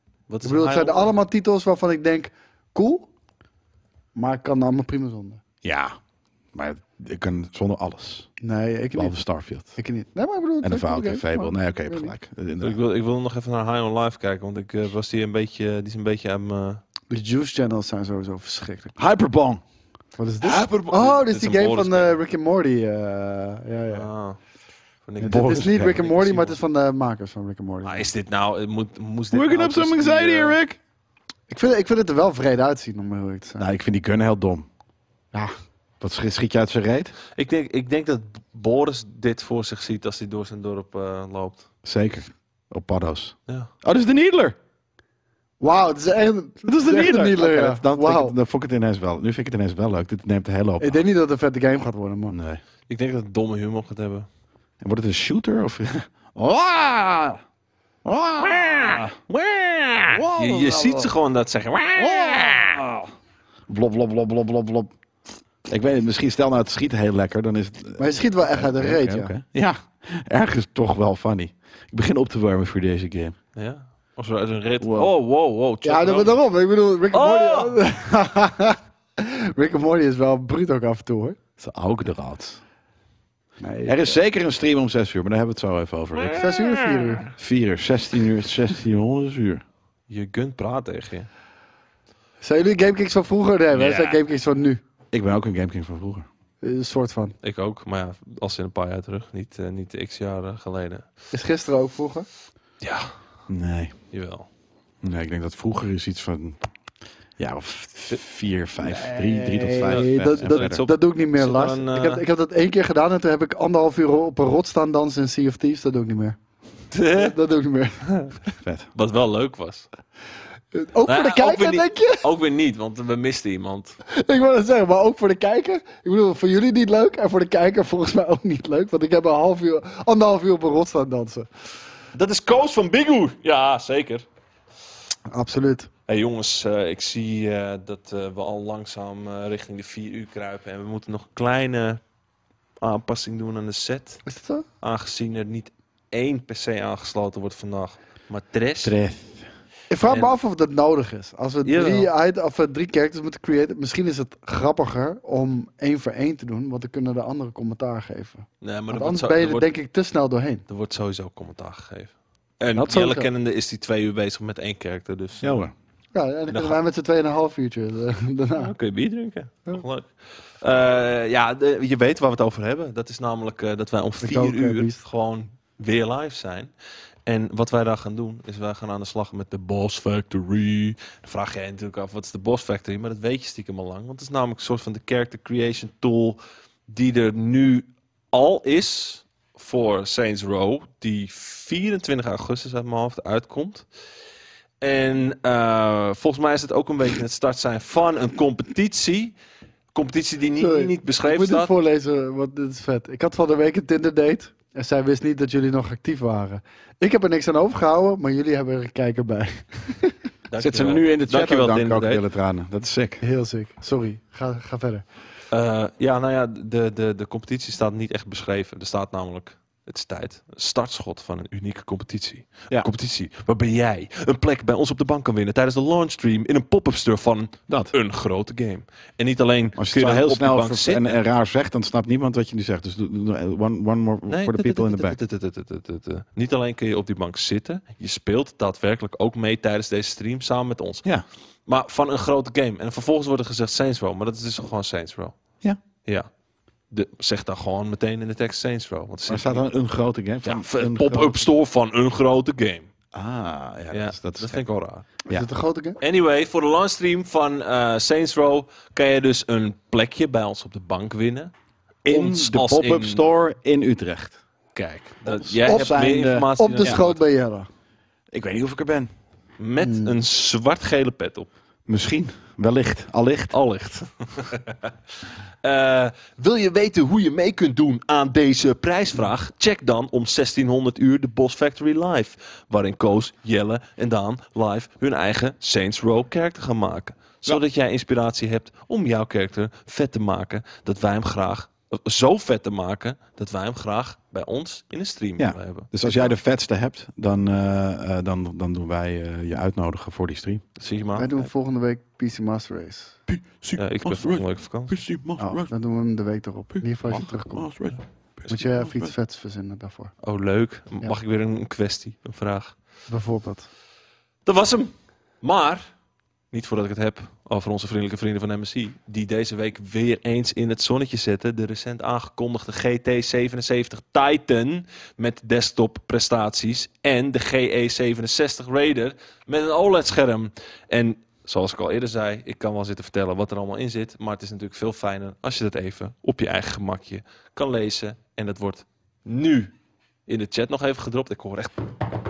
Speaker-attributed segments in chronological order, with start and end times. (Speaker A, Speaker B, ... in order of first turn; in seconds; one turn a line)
Speaker A: 0.3-1.1
Speaker B: 0.4-3.1
Speaker B: 4.2-5.4
Speaker C: 5.6-6.0
Speaker C: 6.5-8.3
Speaker B: 8.4-9.2
Speaker C: 8.9-9.7
Speaker B: 9.8-12.1
Speaker C: 10.6-12.8
Speaker A: 12.6-16.8
Speaker B: 17.1-19.0
Speaker C: 19.0-19.6
Speaker B: 20.2-24.1
Speaker A: 20.4-22.2
Speaker A: 23.9-24.4
Speaker A: 25.1-26.6
Speaker B: 25.2-28.1
Speaker C: 25.2-26.0
Speaker A: 27.8-30.6
Speaker C: 29.3-30.8
Speaker B: 31.5-33.7
Speaker C: 33.6-34.7
Speaker C: 36.0-37.2
Speaker A: 37.4-41.7
Speaker C: 41.8-44.6
Speaker B: 45.6-48.4
Speaker C: 46.6-51.0
Speaker B: 50.8-52.4
Speaker C: 52.3-52.6
Speaker A: 52.9-54.3
Speaker C: 54.8-57.4
Speaker C: 58.0-61.1
Speaker A: 58.5-62.8
Speaker C: 62.0-63.1
Speaker C: 63.7-64.9
Speaker C: 65.7-73.4
Speaker B: 68.0-69.3
Speaker A: 73.6-76.4
Speaker C: 74.8-75.1
Speaker B: 75.8-81.4
Speaker A: 77.1-77.8
Speaker C: 81.6-82.6
Speaker B: 83.6-84.2
Speaker C: 83.9-86.5
Speaker B: 86.3-87.2
Speaker C: 87.3-89.6
Speaker A: 90.1-91.3
Speaker B: 92.4-94.8
Speaker A: 93.7-94.2
Speaker C: 95.1-96.3
Speaker B: 96.6-97.4
Speaker A: 97.4-101.1
Speaker B: 101.3-102.3
Speaker A: 102.8-103.2
Speaker C: 103.5-103.9
Speaker A: 104.1-104.5
Speaker C: 105.0-106.6
Speaker C: 107.4-110.8
Speaker B: 108.8-116.4
Speaker A: 109.8-112.2
Speaker A: 116.9-117.3
Speaker B: 117.1-118.0
Speaker A: 118.0-118.4
Speaker C: 118.6-118.9
Speaker A: 118.9-119.9
Speaker B: 120.7-122.2
Speaker A: 121.1-124.0
Speaker B: 124.1-131.5
Speaker A: 132.1-134.3
Speaker B: 135.3-135.9
Speaker A: 136.1-142.0
Speaker A: 142.8-144.2
Speaker B: 144.3-144.7
Speaker A: 144.8-148.9
Speaker C: 148.8-149.5
Speaker B: 149.9-160.6
Speaker A: 150.1-150.3
Speaker A: 151.7-152.1
Speaker A: 158.6-159.7
Speaker A: 160.7-165.6
Speaker B: 162.8-163.3
Speaker C: 165.4-165.7
Speaker B: 166.1-168.7
Speaker A: 166.5-166.8
Speaker A: 168.6-176.7
Speaker B: 174.2-175.0
Speaker A: 177.3-193.9
Speaker A: 194.8-199.4
Speaker A: 199.9-201.7
Speaker B: 200.6-210.2
Speaker A: 210.5-212.2
Speaker C: 210.6-213.2
Speaker B: 213.2-215.1
Speaker A: 215.5-231.2
Speaker C: 227.7-227.9
Speaker C: 229.8-235.2
Speaker A: 234.3-241.1
Speaker A: 241.7-245.4
Speaker A: 246.1-246.3
Speaker A: 246.9-249.7
Speaker C: 249.3-251.4
Speaker A: 250.4-252.9
Speaker C: 253.1-254.7
Speaker A: 253.9-255.1
Speaker B: 255.3-256.0
Speaker A: 256.0-261.5
Speaker C: 262.1-264.4
Speaker A: 262.1-263.2
Speaker A: 264.8-267.2
Speaker C: 265.4-267.0
Speaker B: 265.7-266.0
Speaker B: 266.6-267.7
Speaker C: 268.3-269.1
Speaker A: 269.6-271.5
Speaker B: 269.8-270.1
Speaker C: 271.9-273.5
Speaker A: 273.5-274.9
Speaker A: 275.6-296.3
Speaker C: 295.4-300.6
Speaker A: 300.8-301.5
Speaker B: 301.2-303.2
Speaker C: 303.3-305.7
Speaker A: 303.8-305.0
Speaker B: 305.4-307.7
Speaker C: 306.8-309.1
Speaker B: 308.5-310.1
Speaker A: 310.2-312.8
Speaker B: 313.1-313.7
Speaker A: 314.4-315.9
Speaker A: 316.5-339.7
Speaker A: 340.3-342.0